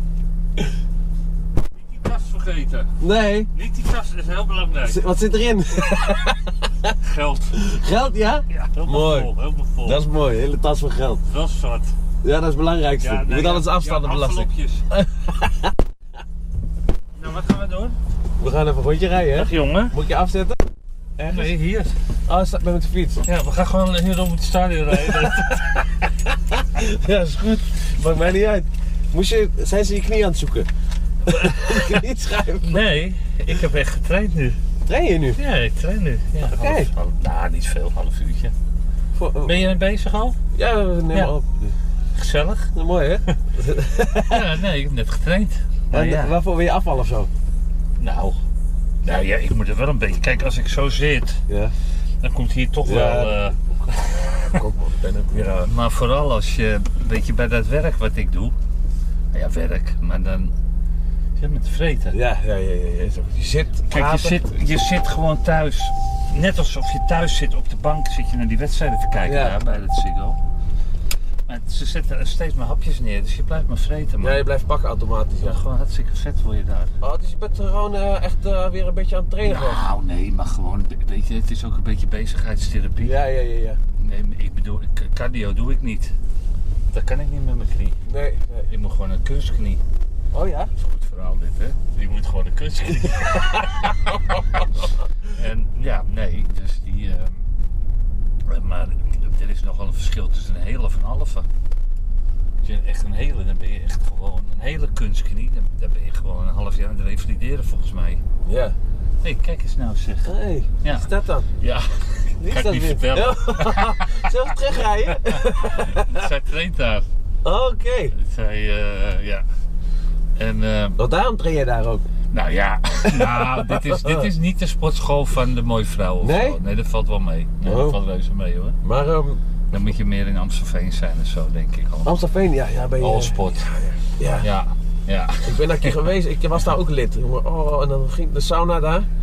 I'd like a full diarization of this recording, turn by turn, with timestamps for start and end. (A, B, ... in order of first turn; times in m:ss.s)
0:01.7-0:03.0 A
0:03.0-0:03.5 B
0:03.5-0:05.1 A
0:04.8-0:06.7 B
0:05.8-0:06.2 A
0:07.0-0:07.7 A
0:07.5-0:09.3 B
0:08.5-0:10.0 A
0:09.8-0:11.2 B
0:11.2-0:11.9 A
0:12.2-0:15.7 B
0:13.0-0:14.9 A
0:17.2-0:18.0 A
0:18.4-0:20.6 B
0:19.3-0:20.0 A
0:21.2-0:21.5 B
0:21.2-0:22.0 A
0:22.3-0:23.2 B
0:23.2-0:26.1 A
0:26.7-0:30.7 B
0:31.3-0:32.0 A
0:31.3-0:32.8 B
0:32.6-0:34.6 A
0:34.8-0:35.4 B
0:35.3-0:38.5 A
0:36.4-0:36.9 B
0:39.1-0:39.6 B
0:39.4-0:40.4 A
0:40.5-0:41.7 B
0:42.1-0:42.7 A
0:42.7-0:44.5 B
0:44.2-0:46.3 A
0:45.9-0:47.3 B
0:48.0-0:48.4 A
0:49.0-0:51.4 A
0:51.5-0:51.7 B
0:52.2-0:54.6 A
0:52.8-0:53.6 B
0:54.3-0:55.6 B
0:55.4-0:58.5 A
0:59.3-1:00.5 A
1:01.4-1:02.2 A
1:02.1-1:04.4 B
1:03.9-1:10.4 A
1:09.2-1:09.6 B
1:11.5-1:14.4 A
1:14.2-1:15.6 B
1:15.4-1:16.9 A
1:17.0-1:19.9 B
1:19.4-1:23.2 A
1:23.0-1:23.8 B
1:24.0-1:26.1 A
1:26.9-1:28.0 A
1:28.1-1:28.7 B
1:28.7-1:29.8 A
1:30.3-1:30.7 B
1:30.8-1:37.4 A
1:38.5-1:41.5 A
1:42.6-1:48.2 A
1:48.4-1:48.8 B
1:49.2-1:50.3 A
1:50.2-1:51.5 B
1:50.8-1:57.1 A
1:52.4-1:56.2 B
1:57.4-1:58.1 B
1:58.1-1:59.4 A
2:00.4-2:01.0 A
2:01.0-2:02.0 B
2:02.3-2:08.8 A
2:03.0-2:04.3 B
2:06.2-2:06.6 B
2:07.6-2:08.0 B
2:08.8-2:09.4 B
2:09.7-2:12.2 A
2:12.0-2:14.4 B
2:13.0-2:13.7 A
2:14.4-2:16.0 A
2:15.4-2:19.1 B